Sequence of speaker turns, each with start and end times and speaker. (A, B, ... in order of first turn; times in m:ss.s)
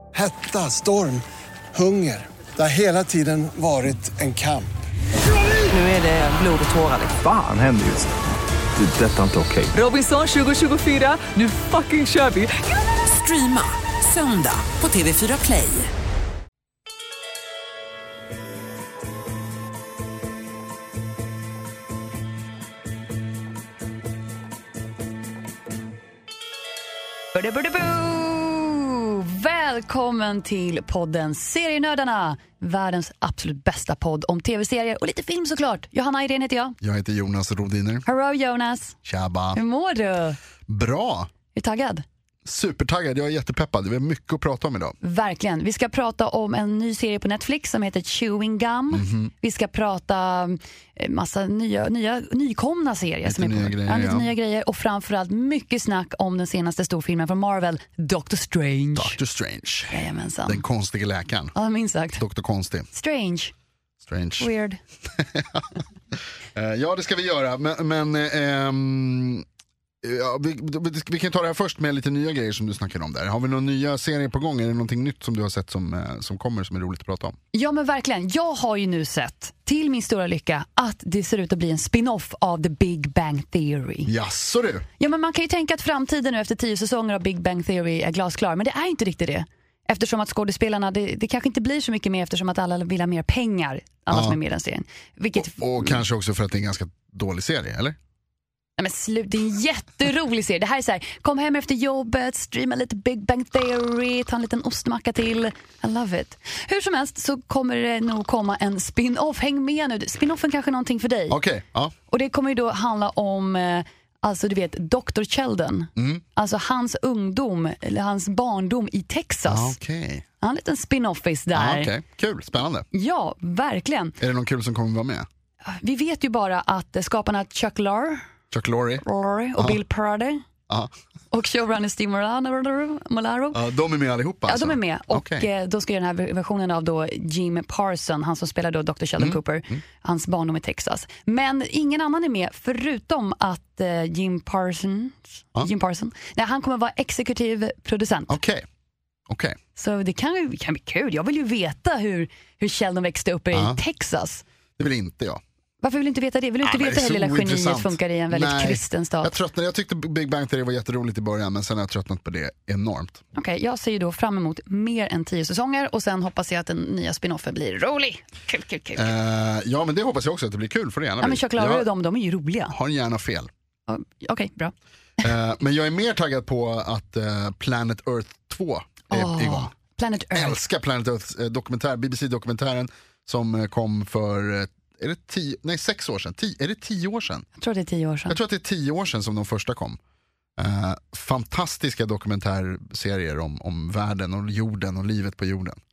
0:00.1-0:04.8 A
0:05.7-0:07.2 B
0:07.2-0:08.1 C
0:08.8-0:09.7 C
0:09.7-0:15.9 B
0:27.3-0:36.8 D
0:36.8-0:38.0 E
0:38.0-0:39.0 D
0:39.0-0:39.6 E
0:39.5-0:40.4 D
0:40.7-0:41.3 E
0:41.5-0:42.0 D
0:42.4-0:45.0 E
0:45.0-0:59.2 D
0:48.9-0:49.3 E
0:53.2-0:54.3 E
0:59.0-1:01.5 E
0:59.9-1:00.6 D
1:01.5-1:02.2 D
1:02.2-1:02.9 E
1:02.9-1:03.5 D
1:04.0-1:04.5 E
1:04.4-1:04.8 D
1:05.1-1:05.8 E
1:06.5-1:09.4 E
1:10.0-1:17.4 E
1:17.5-1:24.1 D
1:24.1-1:24.8 E
1:25.0-1:36.0 D
1:34.1-1:34.4 E
1:35.3-1:38.0 E
1:38.8-1:51.4 D
1:51.3-1:51.9 E
1:52.1-1:59.8 D
1:56.0-1:56.2 E
1:59.5-2:00.2 E
2:00.4-2:01.9 D
2:01.5-2:02.8 E
2:02.9-2:04.2 D
2:04.2-2:05.3 E
2:05.6-2:08.3 D
2:08.5-2:09.0 E
2:09.0-2:10.4 D
2:11.3-2:13.6 D
2:13.5-2:15.5 E
2:14.5-2:28.4 D
2:19.2-2:19.8 E
2:28.3-2:28.6 E
2:29.3-2:29.6 E
2:29.7-2:34.4 D
2:33.5-2:33.8 E
2:34.8-2:35.4 E
2:35.8-2:39.3 D
2:36.6-2:43.2 E
2:43.3-2:49.1 D
2:49.0-2:51.9 E
2:51.2-2:52.8 D
2:52.7-2:53.5 E
2:53.9-2:54.7 D
2:55.2-2:59.7 E
2:59.1-3:00.6 D
3:00.3-3:07.4 E
3:07.6-3:08.4 D
3:08.3-3:10.0 E
3:10.6-3:15.8 E